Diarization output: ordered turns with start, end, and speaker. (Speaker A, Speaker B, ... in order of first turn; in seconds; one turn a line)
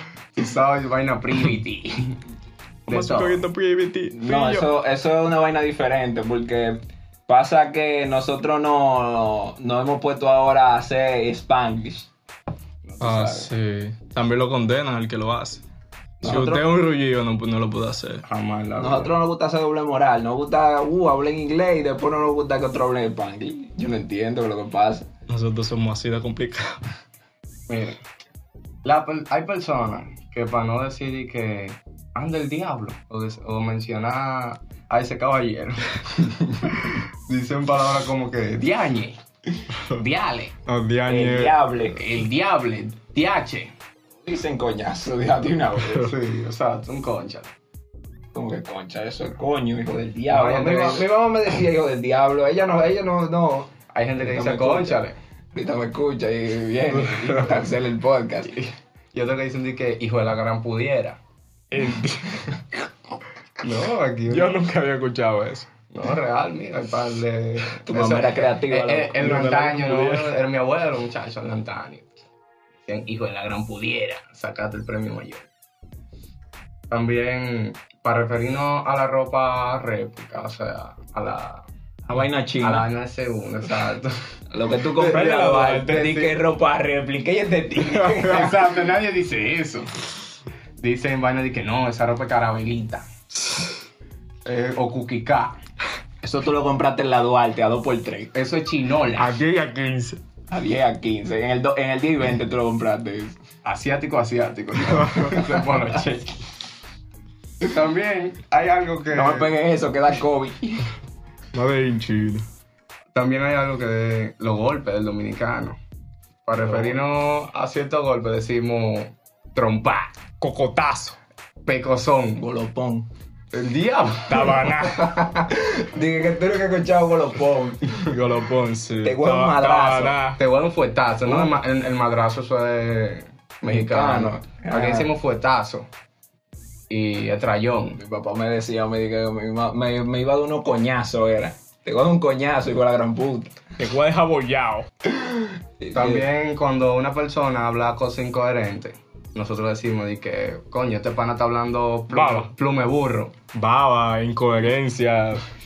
Speaker A: 0.3-2.2
Speaker B: 2.9-4.7
Speaker A: 2.9-3.4
Speaker C: 4.1-12.1
Speaker A: 12.8-13.5
Speaker B: 13.0-15.6
Speaker C: 16.2-16.6
Speaker B: 16.2-18.2
Speaker A: 18.2-19.1
Speaker C: 18.8-25.1
Speaker B: 25.3-26.8
Speaker A: 27.7-28.0
Speaker A: 28.8-39.2
Speaker A: 39.9-40.5
Speaker B: 40.6-41.6
Speaker C: 41.0-42.0
Speaker A: 41.9-43.7
Speaker C: 44.2-46.1
Speaker A: 45.9-47.5
Speaker C: 48.3-55.0
Speaker A: 50.3-51.1
Speaker A: 53.9-55.1
Speaker C: 55.5-58.6
Speaker B: 56.9-57.6
Speaker A: 58.5-61.2
Speaker B: 61.7-62.6
Speaker A: 63.6-64.6
Speaker B: 64.3-65.7
Speaker A: 65.9-72.1
Speaker C: 67.8-69.1
Speaker B: 69.2-70.3
Speaker A: 72.8-75.5
Speaker A: 76.9-81.7
Speaker C: 82.1-82.9
Speaker A: 82.6-84.1
Speaker C: 84.5-88.6
Speaker B: 85.0-86.4
Speaker A: 85.2-86.0
Speaker A: 88.1-89.9
Speaker A: 90.8-93.1
Speaker A: 94.4-95.6
Speaker C: 96.2-98.3
Speaker A: 98.3-99.3
Speaker B: 99.2-100.2
Speaker C: 100.5-103.4
Speaker A: 103.6-106.4
Speaker B: 104.8-105.4
Speaker A: 107.6-109.5
Speaker C: 109.1-110.9
Speaker B: 111.5-112.4
Speaker A: 113.1-115.8
Speaker A: 116.5-120.2
Speaker B: 120.4-121.2
Speaker A: 121.6-122.4
Speaker C: 122.4-123.1
Speaker A: 123.5-125.5
Speaker B: 124.3-125.2
Speaker C: 125.5-128.0
Speaker B: 127.9-130.4
Speaker C: 129.0-130.2
Speaker A: 130.4-135.9
Speaker C: 133.6-135.1
Speaker A: 136.9-138.0
Speaker C: 138.0-143.6
Speaker B: 143.8-144.8
Speaker C: 145.1-146.2
Speaker A: 145.9-153.3
Speaker B: 152.1-152.5
Speaker B: 153.5-155.4